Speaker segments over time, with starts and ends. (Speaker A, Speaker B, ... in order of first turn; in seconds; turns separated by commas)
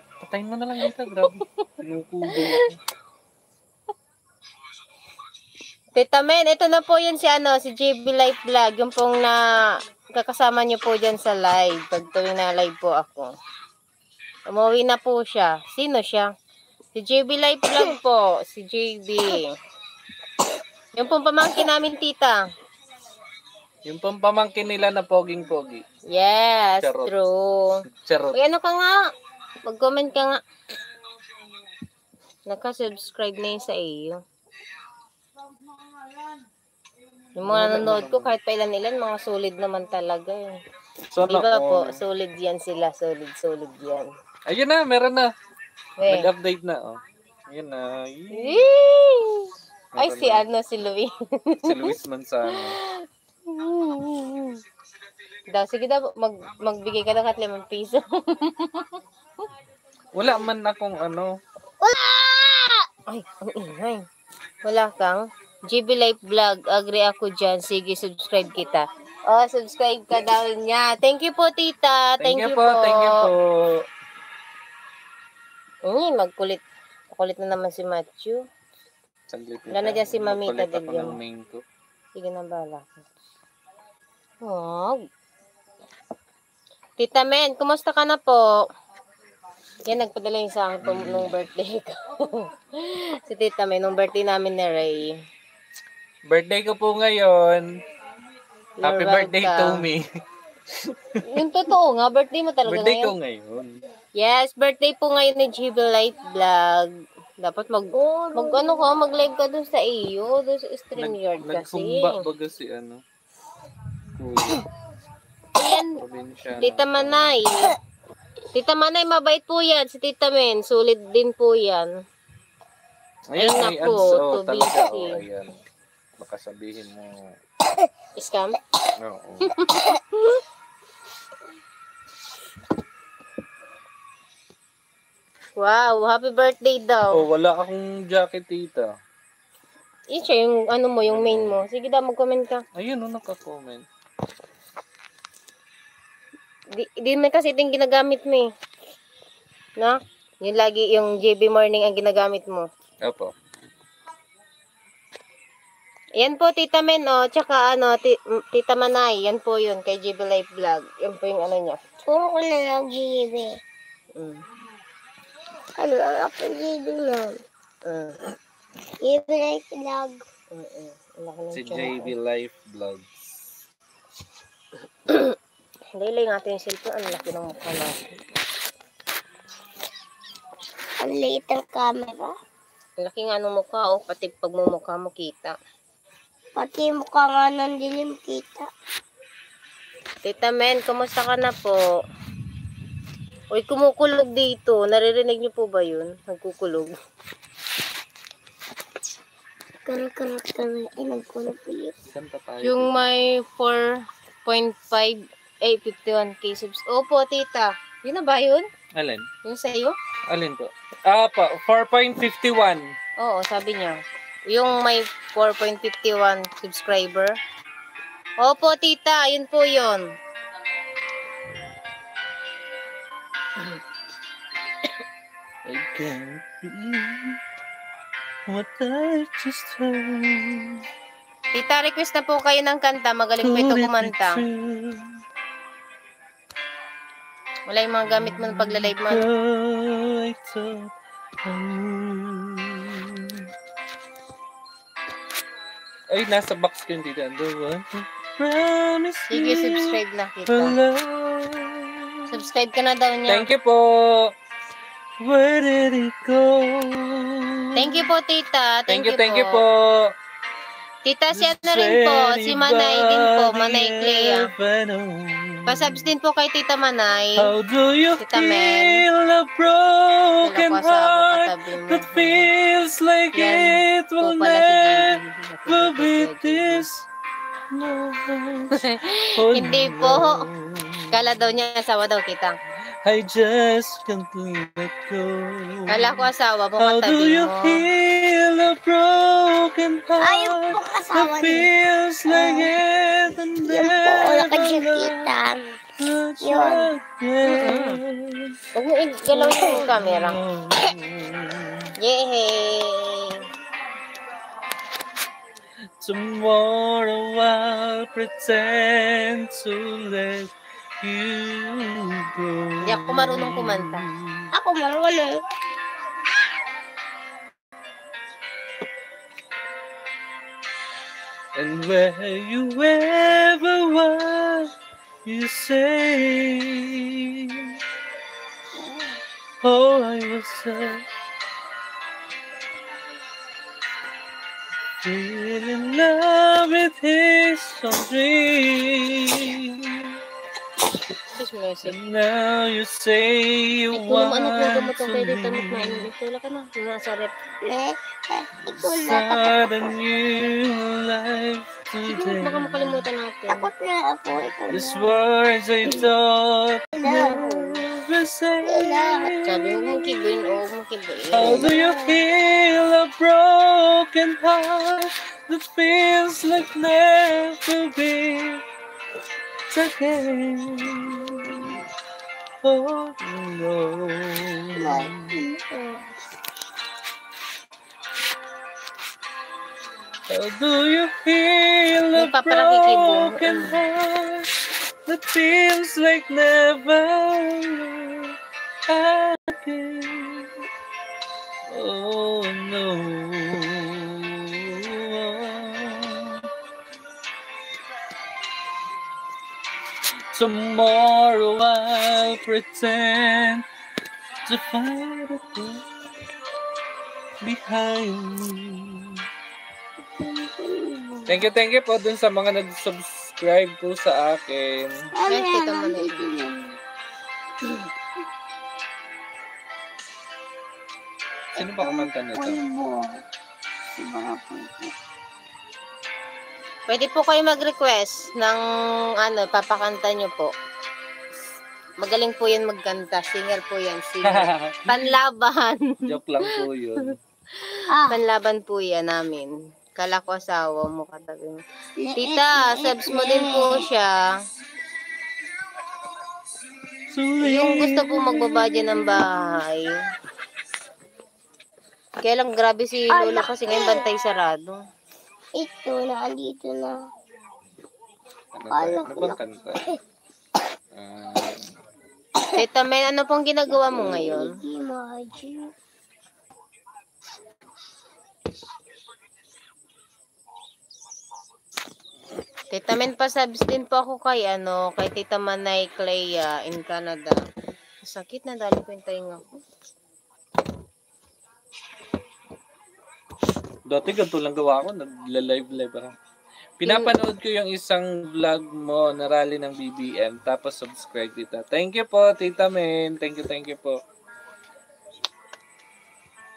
Speaker A: 0.2-2.8, Speaker B: 2.3-2.6, Speaker B: 6.0-13.3, Speaker B: 14.5-16.3, Speaker B: 16.9-19.5, Speaker B: 20.9-22.4, Speaker A: 23.9-25.8, Speaker B: 26.1-27.8, Speaker A: 26.8-27.1, Speaker A: 27.9-28.4, Speaker B: 28.3-29.0, Speaker B: 29.6-30.4, Speaker B: 32.5-34.2, Speaker B: 37.4-40.5, Speaker A: 37.4-38.4, Speaker A: 41.1-42.0, Speaker B: 41.3-44.1, Speaker A: 44.5-45.3, Speaker B: 46.0-46.3, Speaker A: 46.0-48.7, Speaker B: 48.3-51.9, Speaker A: 49.9-50.4, Speaker A: 51.6-52.8, Speaker B: 52.5-54.6, Speaker B: 55.5-59.0, Speaker A: 60.1-61.3, Speaker C: 61.8-62.9, Speaker B: 63.1-64.0, Speaker B: 64.6-73.3, Speaker A: 72.2-73.8, Speaker B: 75.9-78.4, Speaker A: 79.3-81.6, Speaker B: 79.7-81.2, Speaker B: 82.2-83.0, Speaker B: 84.4-85.0, Speaker B: 87.0-88.6, Speaker B: 89.8-95.1, Speaker A: 90.8-91.3, Speaker A: 96.3-97.8, Speaker B: 98.8-99.9, Speaker A: 98.8-100.0, Speaker A: 100.7-101.3, Speaker B: 101.3-103.1, Speaker A: 102.6-103.8, Speaker B: 104.2-112.2, Speaker C: 107.9-108.8, Speaker A: 110.9-113.0, Speaker A: 114.1-114.7, Speaker B: 115.5-116.0, Speaker A: 115.9-117.4, Speaker B: 116.6-117.7, Speaker B: 118.5-121.9, Speaker A: 123.3-125.6, Speaker B: 123.4-125.2, Speaker A: 126.2-127.3, Speaker B: 128.2-128.6, Speaker A: 129.0-129.6, Speaker B: 129.4-130.4, Speaker B: 135.6-137.2, Speaker A: 137.1-138.9, Speaker B: 140.1-142.6, Speaker A: 141.0-141.6, Speaker A: 142.8-143.8, Speaker B: 146.7-148.5, Speaker B: 149.8-152.7, Speaker A: 153.0-153.3, Speaker B: 156.2-161.8, Speaker C: 162.0-163.6, Speaker B: 164.1-164.4, Speaker C: 165.8-167.4, Speaker B: 167.8-168.2, Speaker C: 169.0-170.2, Speaker B: 170.5-172.1, Speaker A: 171.5-173.1, Speaker B: 175.1-175.3, Speaker B: 176.0-178.1, Speaker C: 181.0-182.3, Speaker B: 183.0-185.6, Speaker C: 186.6-188.7, Speaker B: 190.2-191.8, Speaker B: 193.5-196.9, Speaker C: 199.8-201.9, Speaker A: 202.1-203.0, Speaker B: 202.6-203.9, Speaker B: 204.4-208.7, Speaker A: 208.9-209.3, Speaker B: 209.4-209.9, Speaker A: 210.3-212.9, Speaker B: 213.2-217.4, Speaker B: 218.4-220.1, Speaker A: 225.6-227.4, Speaker A: 228.5-230.8, Speaker B: 231.5-234.4, Speaker A: 233.4-235.2, Speaker B: 237.7-239.3, Speaker A: 238.1-240.9, Speaker A: 241.4-243.5, Speaker A: 246.1-252.3, Speaker B: 249.3-250.8, Speaker B: 252.3-253.5, Speaker A: 253.3-254.3, Speaker A: 255.2-258.1, Speaker B: 257.8-259.6, Speaker A: 258.9-260.1, Speaker B: 261.0-264.5, Speaker A: 261.3-266.1, Speaker B: 265.7-267.5, Speaker A: 267.4-277.1, Speaker B: 268.2-269.0, Speaker B: 270.4-272.5, Speaker B: 273.3-276.9, Speaker A: 277.7-281.3, Speaker B: 278.7-280.4, Speaker B: 281.1-282.6, Speaker A: 283.0-286.2, Speaker B: 285.9-287.8, Speaker A: 286.8-295.3, Speaker C: 290.2-291.7, Speaker C: 292.3-292.7, Speaker C: 293.6-295.8, Speaker A: 296.0-298.6, Speaker C: 296.4-296.9, Speaker B: 297.4-298.0, Speaker B: 298.7-300.4, Speaker A: 299.4-301.9, Speaker B: 302.0-303.4, Speaker A: 306.0-314.5, Speaker B: 312.8-314.1, Speaker C: 314.5-315.4, Speaker A: 321.6-324.7, Speaker A: 325.2-327.8, Speaker C: 328.7-329.2, Speaker A: 329.6-331.1, Speaker A: 335.0-340.2, Speaker B: 341.3-341.9, Speaker A: 341.8-346.1, Speaker B: 343.9-347.3, Speaker C: 347.6-349.9, Speaker A: 348.6-353.1, Speaker B: 352.1-353.7, Speaker C: 353.5-355.0, Speaker A: 354.7-360.0, Speaker C: 357.0-357.8, Speaker C: 358.6-359.3, Speaker B: 359.4-361.7, Speaker A: 361.3-368.6, Speaker C: 361.4-362.2, Speaker A: 369.7-371.8, Speaker A: 372.6-375.4, Speaker C: 374.8-376.1, Speaker A: 380.3-390.6, Speaker B: 382.1-383.8, Speaker A: 391.7-396.5, Speaker A: 400.3-403.6, Speaker A: 404.4-406.1, Speaker A: 407.4-409.2, Speaker C: 410.1-411.4, Speaker A: 411.3-415.0, Speaker C: 415.2-416.8, Speaker B: 415.3-416.3, Speaker C: 421.5-423.2, Speaker A: 421.6-422.6, Speaker C: 424.0-424.9, Speaker B: 426.9-428.6, Speaker B: 429.1-430.5, Speaker B: 432.0-436.6, Speaker A: 434.2-435.1, Speaker A: 436.0-437.2, Speaker C: 437.9-438.2, Speaker B: 438.1-441.6, Speaker C: 442.0-443.9, Speaker B: 442.2-444.4, Speaker A: 447.1-448.4, Speaker B: 447.4-450.0, Speaker C: 448.4-449.6, Speaker B: 452.2-454.8, Speaker C: 453.1-454.0, Speaker C: 455.6-457.0, Speaker A: 458.5-459.8, Speaker C: 458.7-460.0, Speaker A: 460.9-461.7, Speaker B: 462.6-464.6, Speaker C: 463.8-465.7, Speaker B: 472.7-477.4, Speaker B: 478.0-479.6, Speaker A: 483.9-486.1, Speaker A: 486.8-494.0, Speaker B: 486.9-487.1